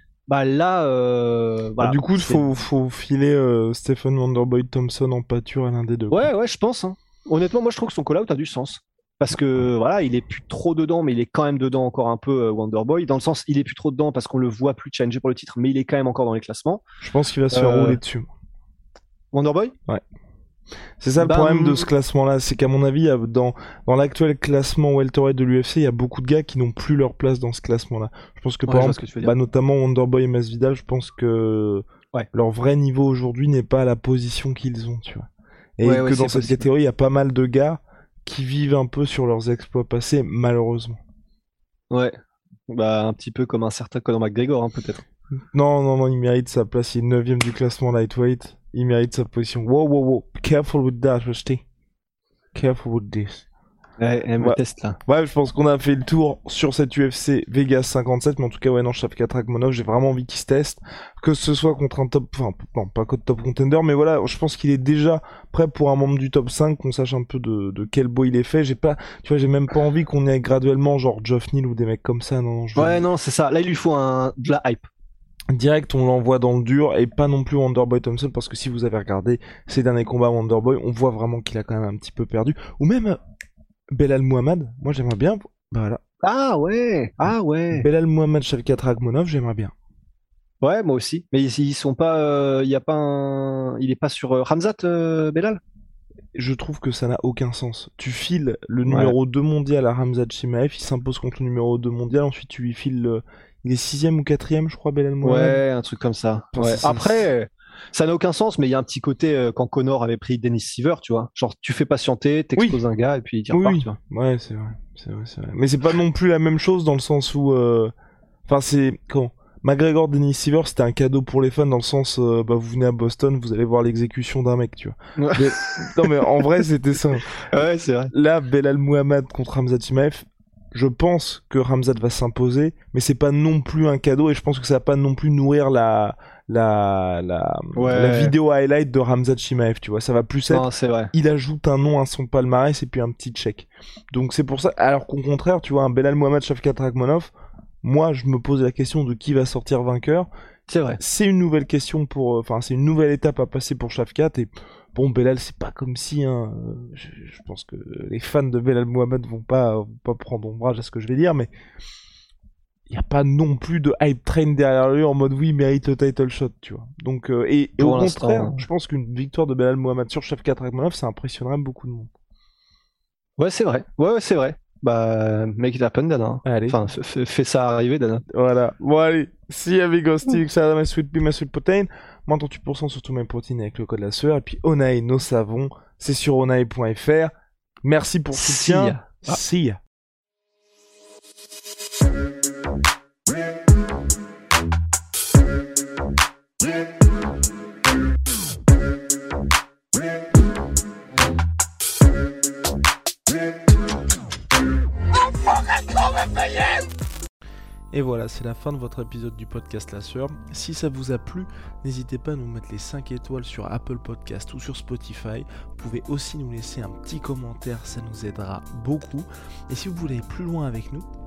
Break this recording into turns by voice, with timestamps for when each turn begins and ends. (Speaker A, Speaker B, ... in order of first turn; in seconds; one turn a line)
Speaker A: 0.3-2.5
Speaker B: 1.8-6.3
Speaker A: 6.1-16.8
Speaker B: 17.0-18.3
Speaker A: 17.5-18.0
Speaker A: 19.3-19.7
Speaker B: 21.0-35.3
Speaker A: 21.2-21.9
Speaker A: 28.7-29.3
Speaker B: 35.8-41.0
Speaker A: 35.8-36.7
Speaker A: 42.7-45.0
Speaker B: 45.5-51.6
Speaker B: 52.5-53.5
Speaker A: 54.0-55.0
Speaker B: 54.4-73.0
Speaker A: 72.8-74.9
Speaker B: 75.5-83.2
Speaker B: 83.9-86.0
Speaker A: 86.2-87.9
Speaker B: 87.7-89.7
Speaker A: 90.6-95.6
Speaker B: 96.3-105.6
Speaker A: 98.9-99.1
Speaker A: 105.2-114.0
Speaker B: 106.5-107.3
Speaker B: 113.5-117.9
Speaker B: 118.5-150.3
Speaker A: 125.2-126.1
Speaker A: 127.5-128.1
Speaker A: 137.8-138.3
Speaker A: 140.5-141.1
Speaker A: 150.7-151.0
Speaker B: 151.0-161.5
Speaker B: 162.9-172.1
Speaker A: 167.8-168.6
Speaker A: 173.4-178.2
Speaker B: 176.4-176.8
Speaker B: 178.3-187.3
Speaker B: 187.8-189.8
Speaker A: 188.3-189.4
Speaker B: 207.9-221.1